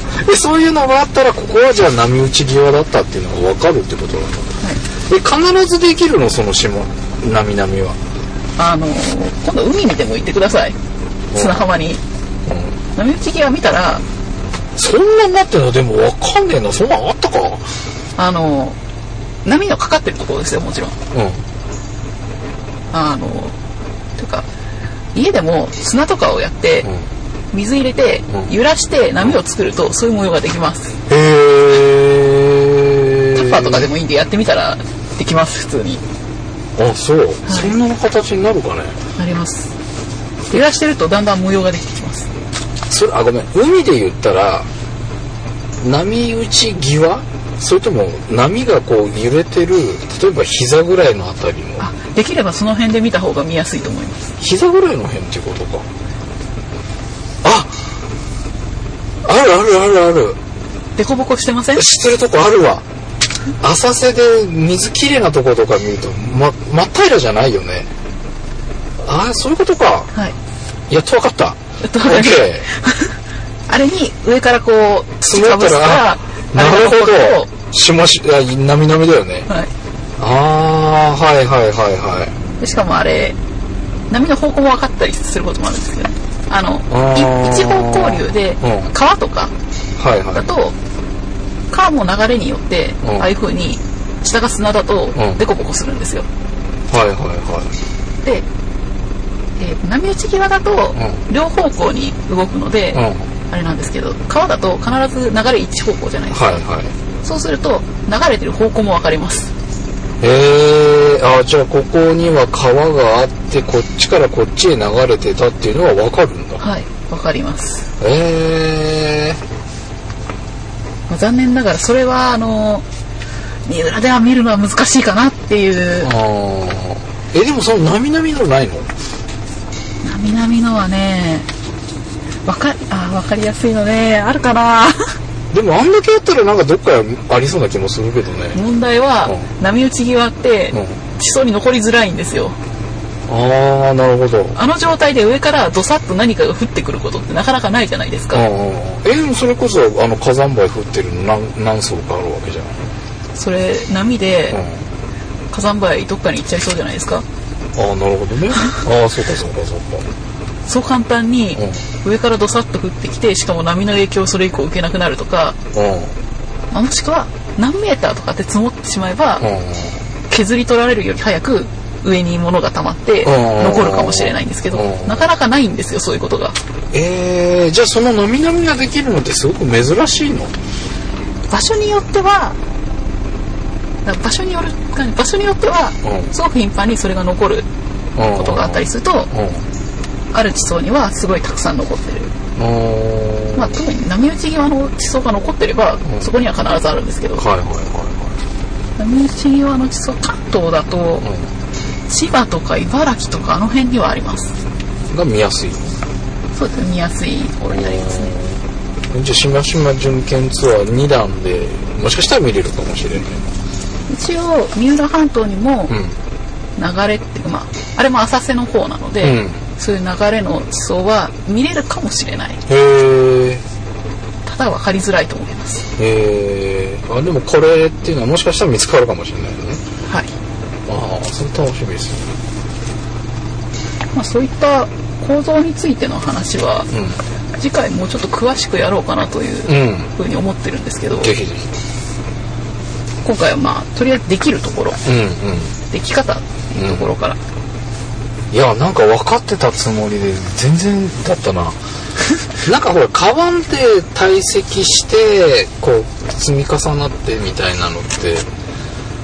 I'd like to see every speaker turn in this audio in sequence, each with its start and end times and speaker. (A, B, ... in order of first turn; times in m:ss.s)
0:00.2-0:04.6 A
0:05.1-0:08.0 A
0:08.6-0:10.8 B
0:11.3-0:11.7 A
0:11.3-0:12.0 B
0:12.5-0:12.8 A
0:13.0-0:14.0 B
0:14.8-0:17.7 A
0:18.2-0:18.8 B
0:19.4-0:21.0 B
0:21.1-0:21.4 A
0:22.9-0:23.6 B
0:24.2-0:24.5 B
0:25.1-0:26.9 B
0:27.5-0:31.0 B
0:31.1-0:33.9 A
0:33.3-0:36.0 B
0:36.8-0:39.0 A
0:37.5-0:37.7 B
0:39.2-0:39.7 B
0:40.5-0:42.3 B
0:42.9-0:44.7 A
0:45.8-0:51.9 A
0:51.8-0:54.3 B
0:54.4-0:55.9 A
0:57.4-0:57.8 A
0:59.2-1:00.4 A
1:01.0-1:01.8 B
1:01.8-1:02.8 A
1:03.6-1:07.9 A
1:09.0-1:10.1 A
1:10.9-1:12.7 A
1:11.8-1:13.1 B
1:13.7-1:17.5 B
1:15.3-1:19.5 A
1:20.2-1:22.4 A
1:22.6-1:23.4 B
1:24.1-1:29.5 B
1:26.9-1:28.9 A
1:30.0-1:30.5 A
1:30.3-1:30.8 B
1:31.7-1:36.3 B
1:33.0-1:33.3 A
1:35.2-1:35.4 A
1:36.9-1:37.7 A
1:39.6-1:46.6 B
1:41.0-1:41.2 A
1:42.9-1:43.3 A
1:46.3-1:46.9 A
1:47.2-1:49.5 B
1:50.2-1:56.6 A
1:56.6-1:57.9 B
1:58.0-1:59.4 A
2:01.1-2:02.8 B
2:03.6-2:06.1 B
2:06.0-2:08.9 A
2:10.0-2:11.5 B
2:12.4-2:15.0 B
2:15.5-2:18.6 A
2:18.6-2:22.6 B
2:20.7-2:21.0 A
2:23.3-2:24.6 A
2:24.6-2:28.4 B
2:28.3-2:32.8 A
2:33.4-2:34.6 B
2:34.5-2:34.8 A
2:35.5-2:37.3 B
2:37.8-2:40.1 A
2:40.7-2:45.6 B
2:41.6-2:41.8 A
2:45.7-2:46.2 A
2:46.7-2:49.5 B
2:49.4-2:50.0 A
2:50.3-2:56.6 B
2:53.2-2:55.3 A
2:56.9-3:00.5 A
3:01.5-3:02.6 B
3:04.0-3:07.7 B
3:06.0-3:06.3 A
3:08.2-3:09.6 A
3:08.3-3:09.3 B
3:10.3-3:12.3 B
3:12.6-3:13.7 A
3:13.6-3:17.4 B
3:17.4-3:18.4 A
3:19.0-3:21.3 B
3:21.2-3:21.5 A
3:22.1-3:24.5 B
3:25.1-3:26.0 A
3:26.6-3:28.3 B
3:27.7-3:28.6 A
3:29.1-3:33.4 A
3:34.1-3:36.0 B
3:35.9-3:36.2 A
3:36.8-3:42.6 B
3:39.2-3:39.6 A
3:42.7-3:43.6 A
3:44.4-3:45.9 B
3:46.0-3:49.8 A
3:50.1-3:50.3 B
3:50.9-3:52.3 A
3:54.1-3:56.9 B
3:56.9-3:57.2 A
3:57.6-4:01.3 B
3:59.7-4:00.1 A
4:01.1-4:01.7 A
4:03.2-4:05.0 B
4:05.0-4:05.8 A
4:05.9-4:07.4 B
4:06.8-4:07.1 A
4:08.5-4:11.8 A
4:12.6-4:18.5 A